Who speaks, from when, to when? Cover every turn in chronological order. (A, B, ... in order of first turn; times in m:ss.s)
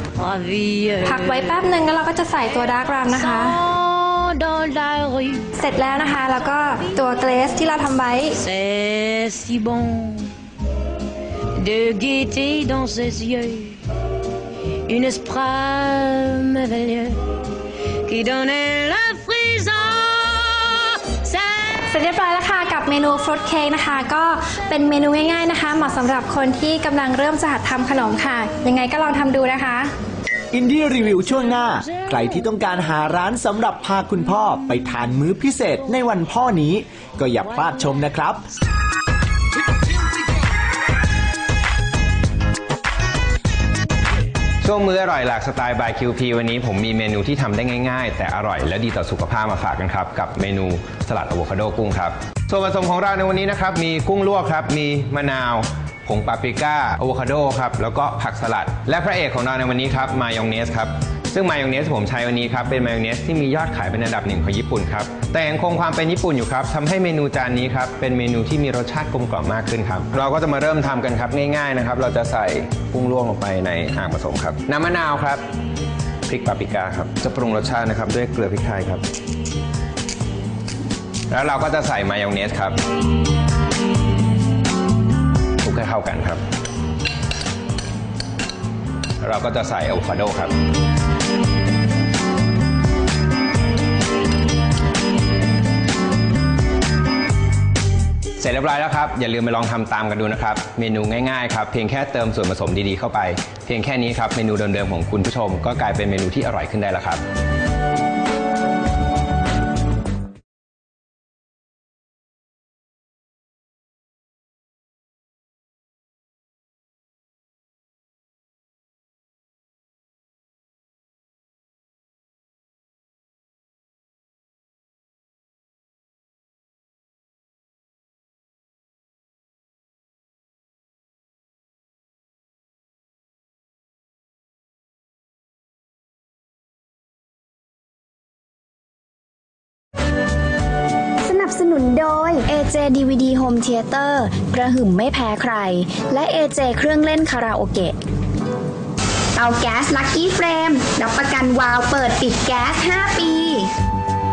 0:00.2-0:01.5 A
0:01.0-0:03.6 B
0:03.2-0:05.5 A
0:05.6-0:08.4 B
0:08.4-0:10.3 A
0:11.6-0:13.8 A
0:14.9-0:17.2 A
0:18.1-0:21.9 A
0:21.9-0:29.9 B
0:30.5-0:38.4 C
0:31.3-0:32.1 A
0:44.6-1:15.4 D
1:16.3-1:19.0 D
1:21.3-1:22.8 D
1:25.6-1:26.4 D
1:29.2-1:30.5 D
1:38.4-1:47.2 D
2:21.2-2:28.0 E
2:29.4-2:33.7 E